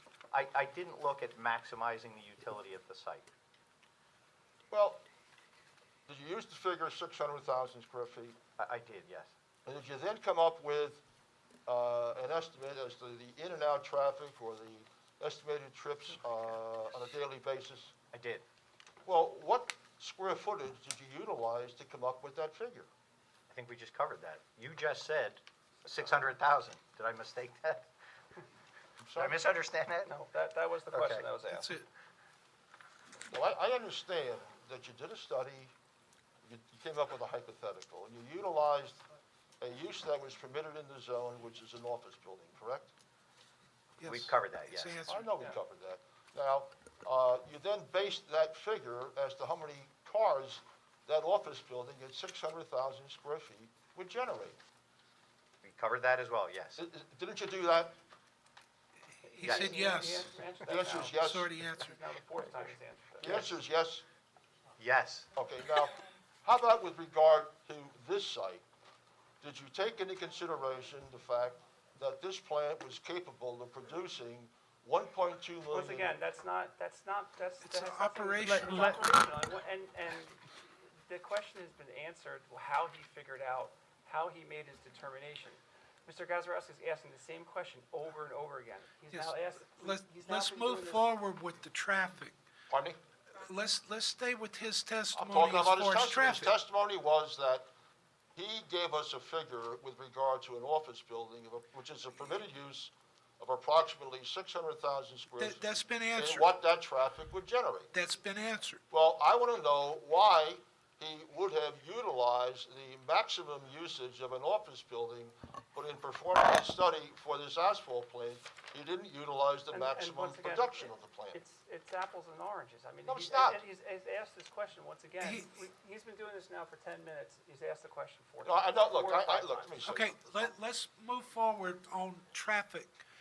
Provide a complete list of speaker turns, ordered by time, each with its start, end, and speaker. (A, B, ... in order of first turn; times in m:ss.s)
0:00.3-0:03.2 A
0:04.7-0:05.0 B
0:06.1-0:08.4 B
0:08.6-0:09.3 A
0:09.6-0:11.0 B
0:11.7-0:17.9 B
0:18.1-0:18.4 A
0:19.0-0:22.9 B
0:23.5-0:27.9 A
0:29.0-0:29.4 B
0:29.2-0:30.1 A
0:30.0-0:31.7 C
0:30.9-0:31.3 A
0:31.5-0:31.8 D
0:33.3-0:35.7 B
0:36.4-0:39.0 B
0:39.6-0:42.9 B
0:44.0-0:45.5 D
0:44.0-0:44.9 A
0:45.0-0:54.6 B
0:55.6-0:56.8 A
0:56.8-0:57.9 B
0:59.2-1:00.3 D
0:59.4-1:01.2 C
0:59.4-0:59.7 A
1:00.6-1:01.5 B
1:00.9-1:02.0 D
1:01.8-1:03.4 C
1:03.2-1:04.0 B
1:04.8-1:05.3 A
1:05.3-1:08.6 B
1:09.4-1:16.2 B
1:15.7-1:20.5 C
1:17.6-1:19.1 D
1:21.0-1:31.1 C
1:29.1-1:32.4 D
1:32.7-1:33.0 B
1:33.3-1:36.5 D
1:35.1-1:37.7 B
1:38.4-1:47.9 B
1:45.4-1:46.5 D
1:47.9-1:48.8 D
1:48.9-2:01.4 B
1:59.7-2:09.7 C
2:03.1-2:03.6 B
2:05.2-2:05.5 D
2:08.4-2:10.1 B
2:09.8-2:13.0 D